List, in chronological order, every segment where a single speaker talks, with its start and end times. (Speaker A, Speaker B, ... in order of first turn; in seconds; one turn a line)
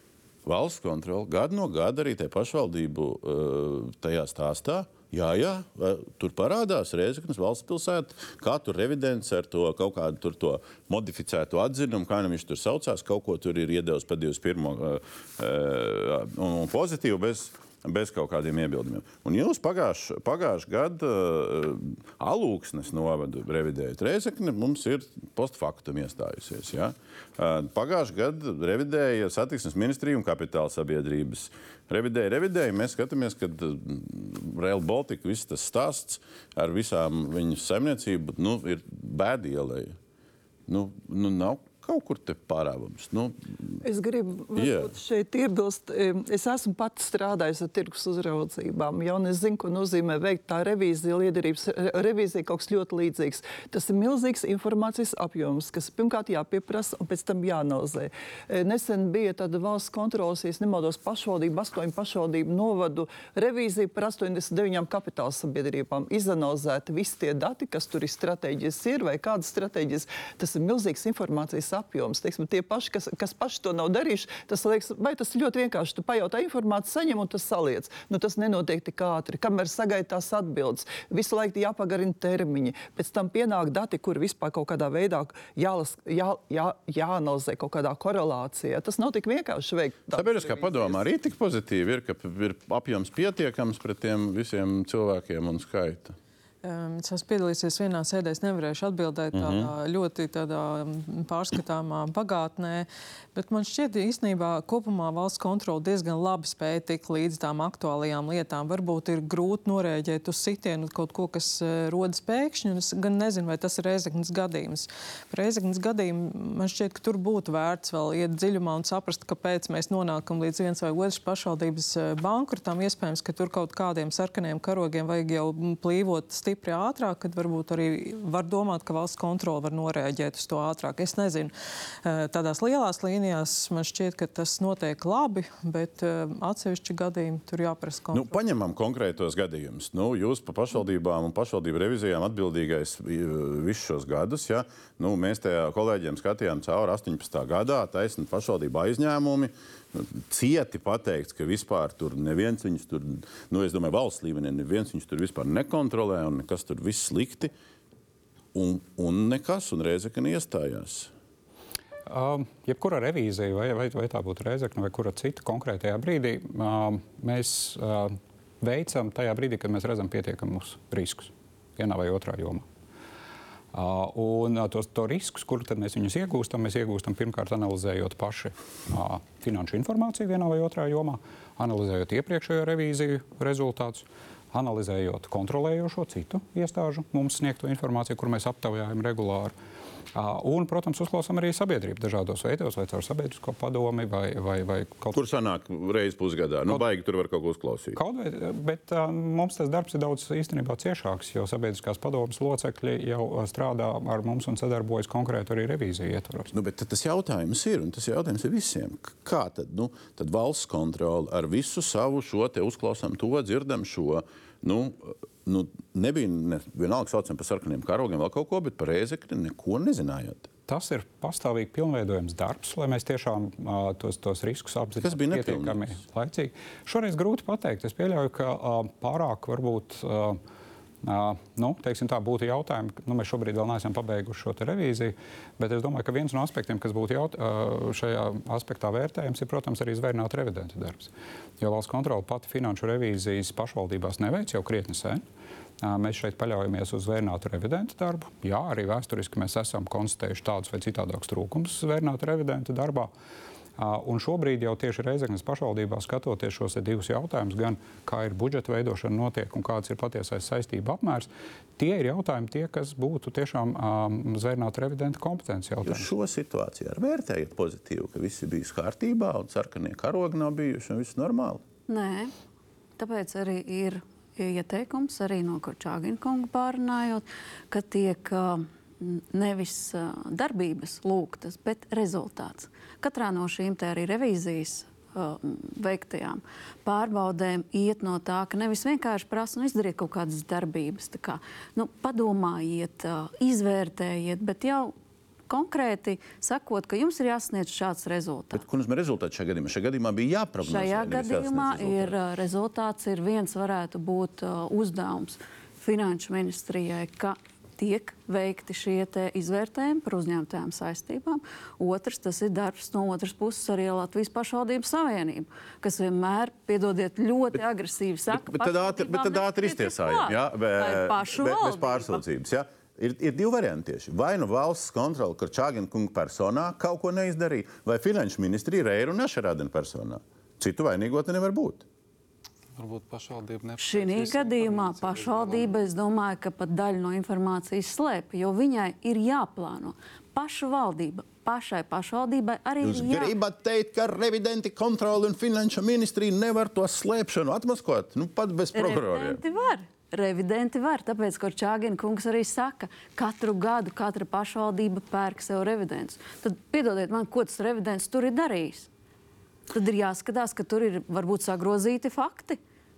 Speaker A: 0.5-40.0
Speaker A: 40.7-43.8
Speaker B: 43.8-91.0
Speaker A: 44.6-44.9
Speaker A: 90.1-96.2
Speaker C: 96.6-131.5
Speaker A: 99.3-99.7
Speaker C: 132.0-138.3
Speaker A: 138.1-157.5
Speaker A: 158.5-161.1
Speaker D: 162.1-172.7
Speaker D: 173.7-189.5
Speaker D: 190.1-195.2
Speaker A: 195.1-198.0
Speaker D: 198.0-206.5
Speaker A: 206.5-220.5
Speaker D: 220.7-230.4
Speaker A: 225.0-226.0
Speaker D: 231.0-245.2
Speaker D: 245.8-253.1
Speaker D: 253.8-266.1
Speaker A: 265.9-271.6
Speaker E: 271.9-272.3
Speaker E: 273.0-294.9
Speaker E: 295.5-298.6
Speaker A: 298.5-302.2
Speaker E: 300.6-322.2
Speaker A: 318.3-331.8
Speaker F: 332.8-335.8
Speaker E: 333.8-343.4
Speaker A: 342.8-349.4
Speaker E: 348.7-358.9
Speaker E: 359.7-362.6